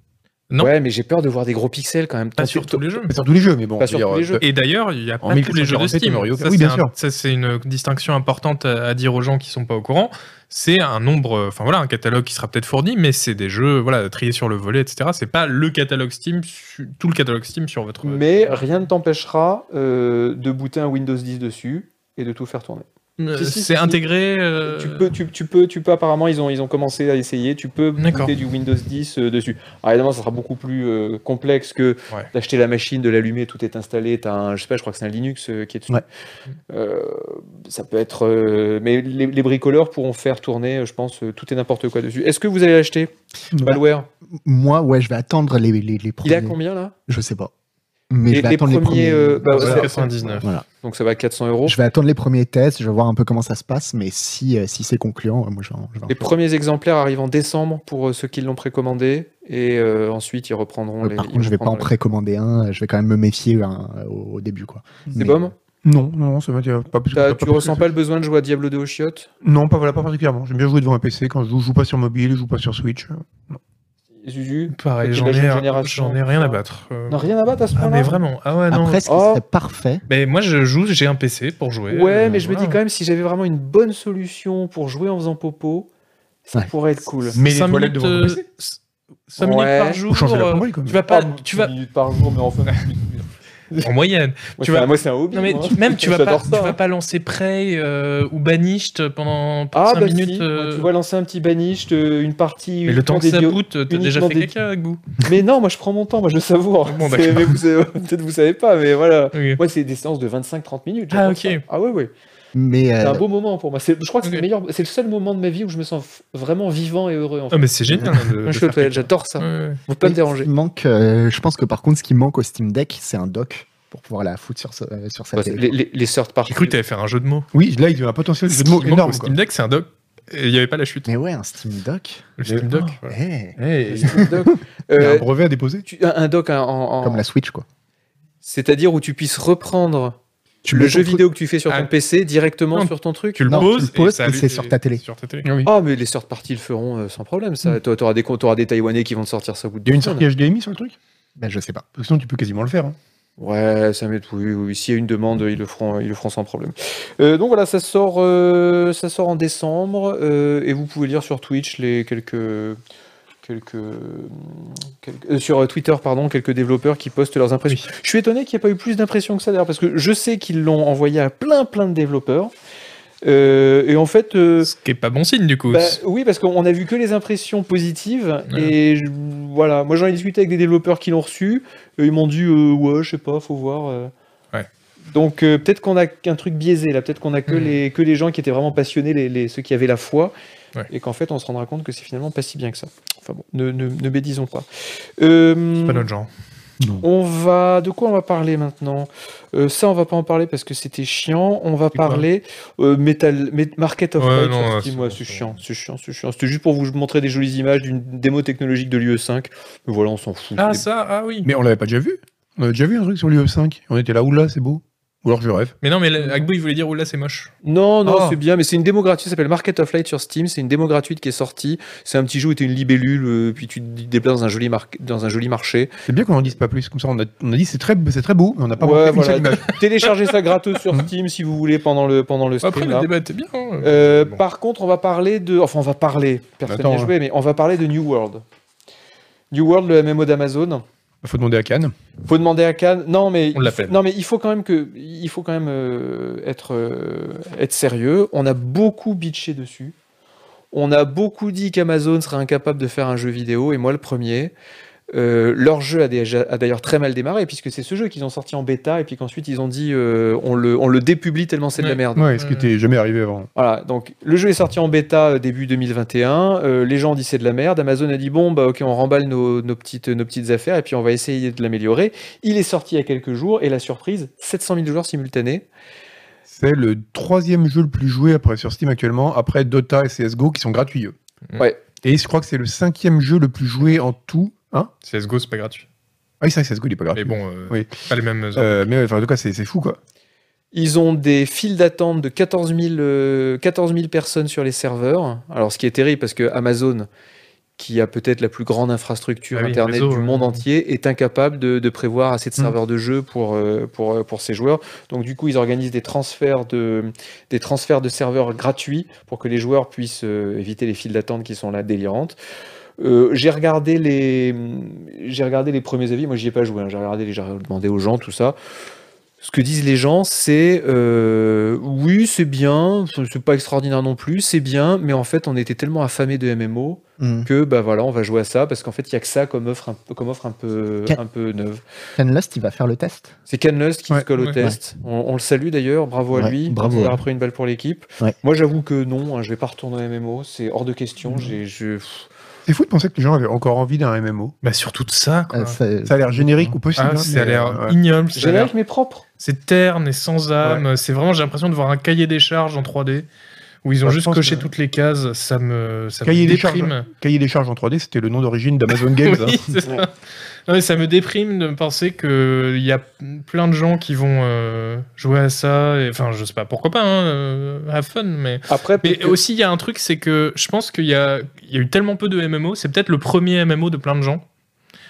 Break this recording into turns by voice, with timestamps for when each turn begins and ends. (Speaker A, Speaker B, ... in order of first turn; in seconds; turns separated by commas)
Speaker A: 0.6-3.0, Speaker B: 2.4-3.1, Speaker C: 3.1-4.4, Speaker A: 3.8-4.4, Speaker B: 4.4-18.6, Speaker C: 5.2-6.9, Speaker A: 18.0-24.0, Speaker B: 23.2-25.1, Speaker A: 24.6-36.0, Speaker B: 28.0-28.3, Speaker A: 36.7-44.1, Speaker D: 44.4-46.6, Speaker A: 46.2-46.9, Speaker D: 47.1-47.5, Speaker D: 48.1-49.9, Speaker A: 48.3-51.8, Speaker B: 49.5-50.5, Speaker D: 51.6-56.3, Speaker A: 56.1-61.9, Speaker D: 61.0-65.5, Speaker A: 65.2-65.5, Speaker C: 65.8-67.9, Speaker A: 67.1-69.3, Speaker C: 69.4-73.6, Speaker A: 74.2-78.2, Speaker B: 74.7-77.2, Speaker B: 77.8-79.0, Speaker D: 78.7-80.0, Speaker A: 79.0-79.4, Speaker B: 80.1-82.8, Speaker A: 81.9-85.9, Speaker A: 86.5-87.4, Speaker B: 87.3-88.8, Speaker C: 87.3-88.4, Speaker B: 89.3-91.7, Speaker A: 89.4-90.0, Speaker C: 90.1-91.0, Speaker A: 91.1-93.9, Speaker B: 93.8-100.9, Speaker A: 94.6-96.8, Speaker A: 99.7-104.5, Speaker B: 102.9-105.0, Speaker A: 105.2-112.1, Speaker B: 106.8-107.6, Speaker B: 109.3-109.6, Speaker B: 111.1-111.6, Speaker D: 112.5-113.2, Speaker A: 113.0-120.5, Speaker B: 117.5-119.8, Speaker D: 120.0-125.7, Speaker A: 125.3-126.7, Speaker B: 126.5-127.5, Speaker C: 127.5-129.3, Speaker B: 128.5-131.1, Speaker D: 131.1-132.3, Speaker B: 132.4-133.2, Speaker D: 133.0-134.2, Speaker C: 133.6-135.8, Speaker A: 133.9-135.3, Speaker A: 135.8-137.2, Speaker D: 137.0-137.7, Speaker A: 138.4-140.2, Speaker D: 140.6-141.2, Speaker A: 140.7-143.7, Speaker B: 142.7-145.5, Speaker D: 143.4-145.0, Speaker C: 145.4-145.7, Speaker A: 145.6-150.2, Speaker C: 149.8-150.9, Speaker D: 151.4-151.8, Speaker C: 151.9-152.9, Speaker A: 153.4-162.8, Speaker A: 163.4-172.5, Speaker A: 173.2-174.7, Speaker B: 174.6-176.0, Speaker A: 175.7-184.1, Speaker A: 185.1-190.3, Speaker B: 187.5-187.8, Speaker A: 190.9-194.7, Speaker A: 195.2-196.1, Speaker B: 195.8-196.3, Speaker A: 197.0-210.8, Speaker B: 201.9-202.2, Speaker B: 204.2-205.6, Speaker B: 210.6-211.5, Speaker C: 211.4-215.7, Speaker B: 215.8-217.5, Speaker A: 217.6-225.9, Speaker C: 218.1-218.4, Speaker C: 226.1-229.8, Speaker A: 228.8-233.1, Speaker B: 232.6-234.4, Speaker A: 233.8-238.4, Speaker C: 236.7-237.1, Speaker A: 239.5-240.8, Speaker C: 241.2-241.9, Speaker A: 242.2-249.9, Speaker B: 243.5-244.0, Speaker A: 250.7-254.5, Speaker A: 255.1-262.3, Speaker B: 261.8-262.7, Speaker C: 262.1-263.5, Speaker A: 263.6-275.7, Speaker C: 276.5-281.1, Speaker C: 282.0-284.9, Speaker B: 285.0-285.9, Speaker C: 286.4-287.9, Speaker B: 287.1-288.8, Speaker C: 288.6-290.0, Speaker A: 290.7-297.1, Speaker A: 297.8-312.4, Speaker B: 299.5-300.6, Speaker A: 313.0-318.6, Speaker A: 319.4-331.8, Speaker D: 327.2-327.5, Speaker D: 332.2-333.3, Speaker A: 333.5-342.3, Speaker D: 336.3-337.2, Speaker C: 342.6-344.5, Speaker B: 344.6-345.8, Speaker D: 345.5-346.8, Speaker C: 346.0-347.9, Speaker B: 346.9-348.7, Speaker A: 348.3-349.2, Speaker B: 349.4-353.3, Speaker B: 353.8-357.1, Speaker C: 354.0-354.7, Speaker C: 356.2-359.6, Speaker B: 359.1-360.1, Speaker B: 360.7-374.4, Speaker A: 368.7-369.4